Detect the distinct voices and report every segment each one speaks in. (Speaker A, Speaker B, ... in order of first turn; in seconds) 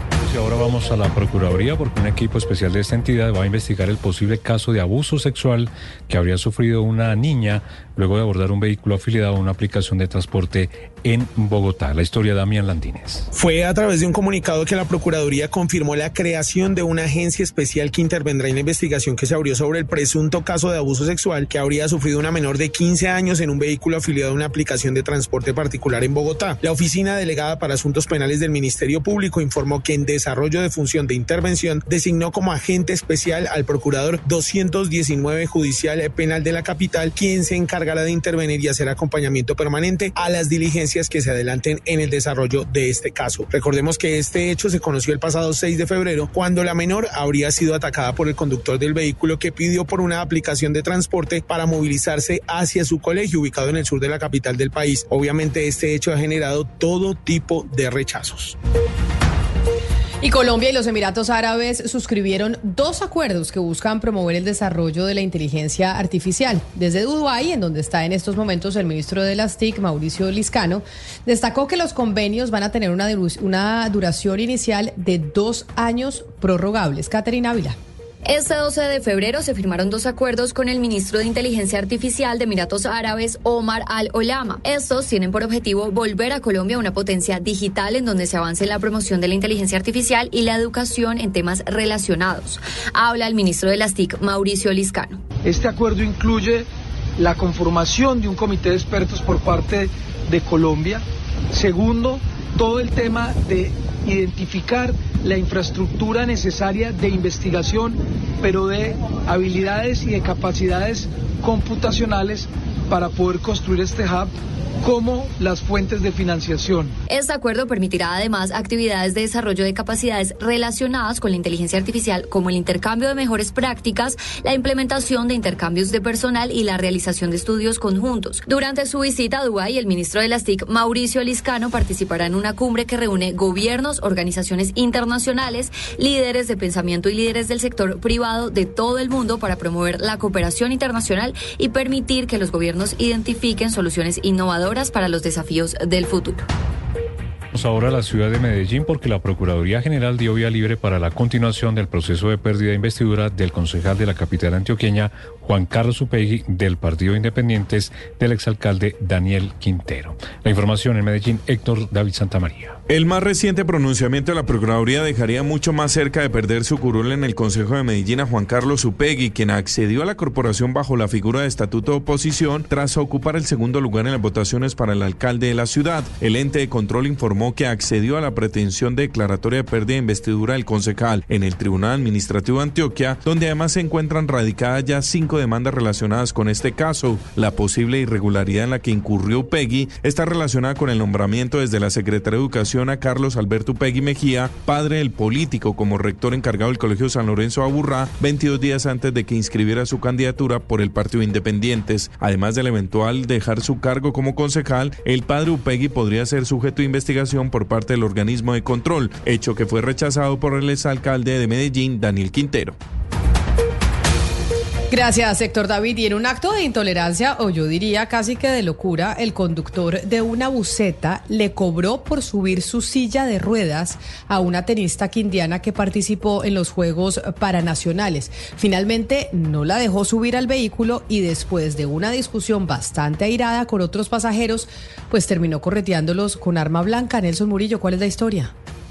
Speaker A: 0.2-13.3, 147.5-162.8
Speaker B: 13.4-58.5
Speaker C: 60.2-77.8, 214.9-238.5
Speaker D: 78.2-95.2, 117.1-146.5
Speaker E: 95.4-116.9
Speaker F: 162.9-212.8